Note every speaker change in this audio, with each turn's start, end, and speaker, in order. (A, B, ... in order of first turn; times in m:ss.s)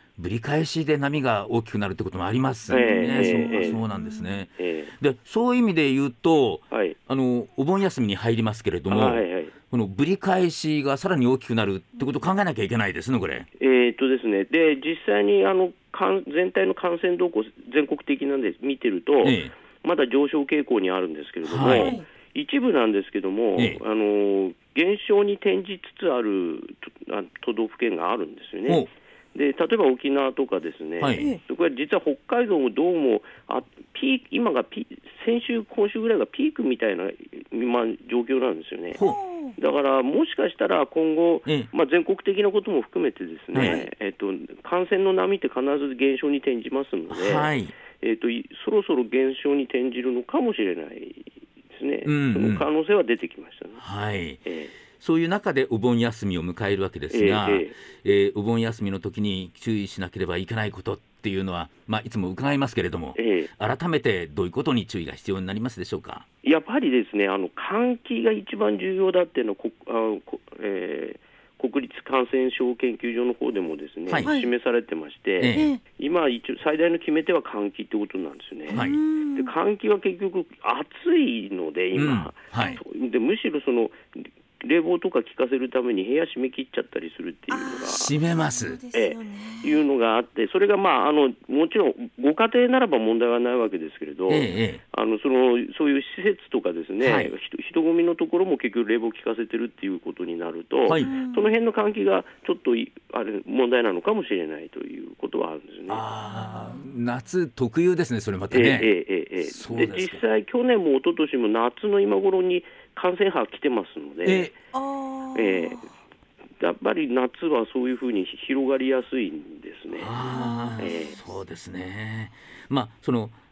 0:00.2-0:13.5 A
0:02.7-0:03.8 B
0:02.7-0:04.4 C
0:04.5-0:04.9 B
0:06.7-0:07.0 B
0:08.9-0:09.5 B
0:13.6-0:39.0 B
0:19.2-0:19.5 A
0:21.4-0:21.9 A
0:21.7-0:22.0 C
0:31.0-0:31.3 A
0:38.9-0:39.2 A
0:39.0-0:39.5 C
0:39.6-0:53.8 B
0:43.5-0:43.8 A
0:43.6-0:43.9 C
0:47.1-0:47.7 A
0:52.0-0:52.7 A
0:53.8-0:54.4 A
0:54.4-0:54.7 B
0:55.0-1:06.2 A
0:57.1-0:57.8 B
1:03.1-1:03.5 B
1:06.4-1:28.2 B
1:14.1-1:14.3 A
1:14.2-1:14.5 C
1:15.4-1:15.7 A
1:15.5-1:15.8 C
1:18.7-1:19.0 A
1:18.7-1:19.5 C
1:21.9-1:22.8 A
1:27.5-1:29.8 C
1:27.9-1:28.8 A
1:28.9-1:46.0 B
1:34.3-1:34.8 A
1:37.0-1:37.3 A
1:41.0-1:41.5 C
1:45.9-1:50.2 A
1:46.3-1:46.8 C
1:48.5-1:54.5 B
1:54.2-1:54.5 A
1:54.7-1:55.8 C
1:55.3-1:55.9 B
1:56.6-2:00.2 B
2:00.0-2:03.4 A
2:00.1-2:01.2 C
2:00.8-2:01.2 B